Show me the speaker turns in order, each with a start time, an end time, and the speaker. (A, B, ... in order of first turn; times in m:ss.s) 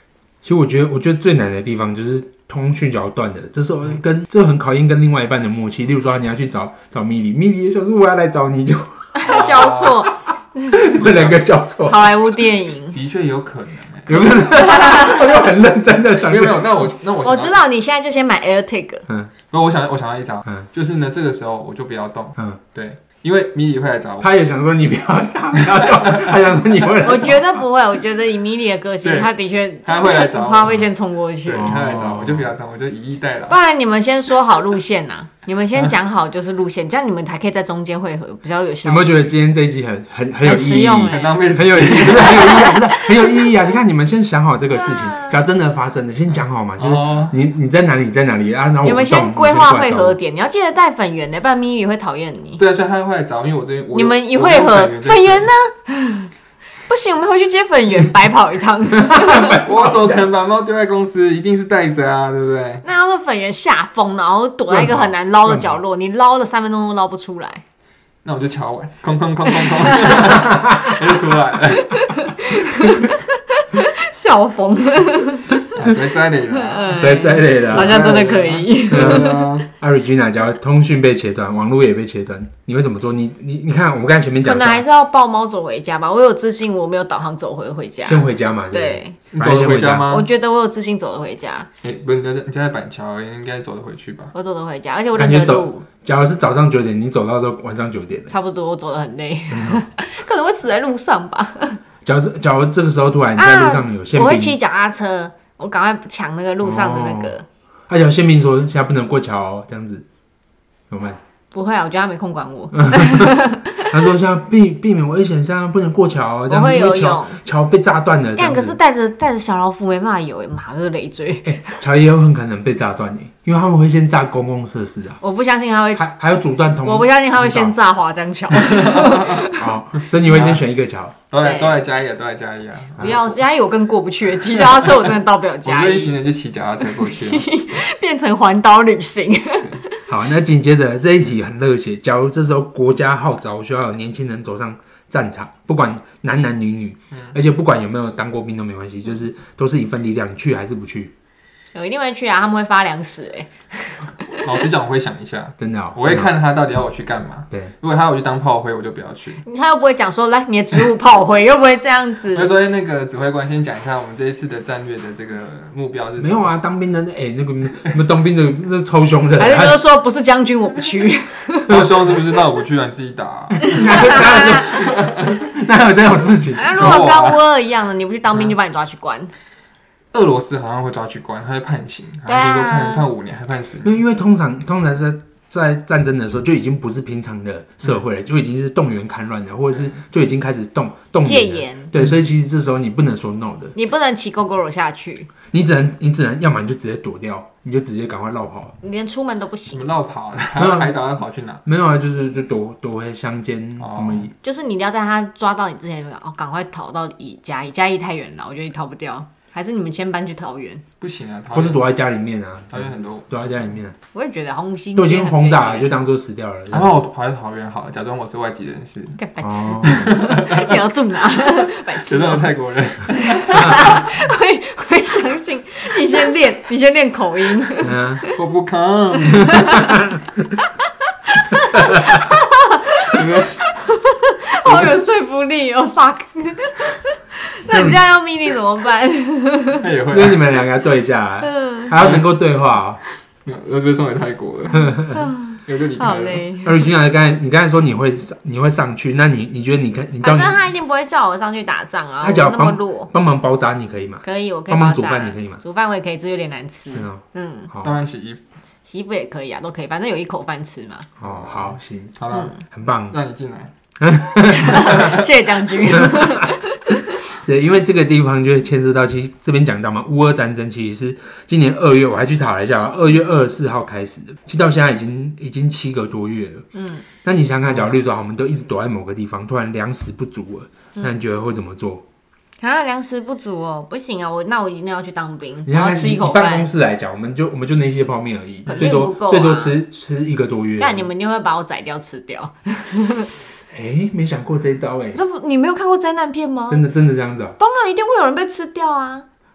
0:00.4-0:09.2 A
0:09.2-0:10.9 B
0:09.2-0:10.1 C
0:10.7-0:12.1 A
0:10.9-0:11.4 C
0:11.9-0:13.0 B
0:12.9-0:14.4 C
0:14.1-0:16.9 A
0:14.5-0:15.4 B
0:16.2-0:17.6 C
0:17.2-0:19.0 B
0:19.5-0:24.3 C
0:24.2-0:27.6 A
0:25.7-0:26.4 C
0:27.0-0:31.7 B
0:29.0-0:29.3 C
0:29.8-0:30.8 C
0:31.4-0:33.6 C
0:31.5-0:32.5 A
0:33.5-0:39.3 B
0:38.8-0:50.2 A
0:40.4-0:43.5 B
0:41.1-0:42.7 C
0:44.7-0:45.4 B
0:46.8-0:47.3 C
0:48.8-0:52.6 B
0:52.6-0:55.5 C
0:53.9-0:56.3 B
0:56.9-0:59.6 B
0:59.0-1:00.2 A
0:59.6-1:02.8 C
1:02.8-1:07.6 B
1:04.7-1:05.8 A
1:08.2-1:12.1 C
1:09.6-1:10.4 B
1:10.3-1:10.9 A
1:11.9-1:15.6 B
1:15.7-1:17.0 C
1:16.5-1:19.5 B
1:16.9-1:18.1 A
1:17.7-1:19.7 C
1:18.9-1:24.8 A
1:24.4-1:29.2 B
1:28.0-1:30.1 A
1:29.3-1:30.3 C
1:30.1-1:31.7 B
1:31.8-1:34.3 C
1:34.3-1:35.8 B
1:35.1-1:38.3 A
1:38.3-1:41.8 B
1:39.5-1:39.8 A
1:42.0-1:44.6 A
1:43.4-1:47.4 B
1:46.6-1:47.3 A
1:47.9-1:50.0 A
1:50.9-1:51.2 A
1:51.5-1:54.0 B
1:52.8-1:53.4 A
1:53.9-1:58.8 A
1:56.5-1:57.4 B
1:58.4-2:01.8 B
2:01.4-2:05.2 A
2:05.2-2:06.2 B
2:05.9-2:07.7 A
2:06.8-2:09.7 B
2:08.6-2:10.6 C
2:09.5-2:11.2 A
2:11.3-2:13.4 C
2:11.4-2:11.8 B
2:13.0-2:16.2 B
2:15.6-2:17.5 C
2:17.0-2:20.0 B
2:20.1-2:31.1 A
2:31.7-2:34.6 B
2:34.4-2:39.4 C
2:35.6-2:36.3 A
2:39.4-2:42.5 B
2:42.3-2:46.5 C
2:46.2-2:49.8 A
2:49.4-2:51.8 B
2:51.7-2:55.4 C
2:53.6-2:54.7 B
2:53.7-2:57.1 A
2:56.6-2:59.3 B
2:56.7-2:57.4 C
3:00.1-3:04.0 C
3:02.3-3:03.0 B
3:03.8-3:13.7 A
3:11.2-3:11.9 B
3:13.7-3:15.3 B
3:15.5-3:18.8 A
3:18.8-3:19.9 B
3:19.7-3:21.6 C
3:20.6-3:21.0 A
3:21.6-3:24.3 A
3:23.8-3:24.3 C
3:24.4-3:30.8 B
3:31.0-3:31.8 C
3:31.5-3:34.0 A
3:32.7-3:33.6 C
3:34.1-3:35.9 B
3:35.0-3:37.0 A
3:36.7-3:39.2 C
3:39.2-3:42.4 B
3:39.4-3:40.1 A
3:39.8-3:40.8 C
3:42.0-3:44.0 C
3:43.2-3:48.4 B
3:47.8-3:48.2 A
3:48.3-3:49.6 C
3:49.2-3:50.0 B
3:49.5-3:50.2 A
3:51.2-3:59.8 B
3:51.7-3:52.2 A
3:53.0-3:53.6 C
3:57.7-3:58.0 A
3:59.8-4:00.6 C
4:00.1-4:03.0 A
4:01.4-4:01.9 B
4:02.0-4:02.3 C
4:03.4-4:04.9 C
4:04.8-4:05.1 A
4:05.1-4:06.9 B
4:05.6-4:06.4 C
4:06.6-4:10.6 A
4:10.2-4:13.1 B
4:12.2-4:15.6 A
4:14.2-4:17.7 B
4:16.9-4:17.9 A
4:17.8-4:18.4 C
4:18.8-4:21.1 B
4:21.2-4:22.2 A
4:21.2-4:22.5 C
4:22.7-4:23.2 A
4:23.1-4:23.7 C
4:24.0-4:25.1 A
4:24.5-4:27.2 B
4:24.7-4:25.2 C
4:25.9-4:26.5 A
4:27.4-4:36.6 A
4:36.7-4:37.0 B
4:37.2-4:42.0 A
4:42.6-4:46.7 B
4:45.6-4:51.1 A
4:48.6-4:49.8 B
4:50.8-4:53.3 B
4:53.7-4:55.2 A
4:55.1-4:56.8 B
4:56.7-4:57.6 A
4:57.6-4:59.2 B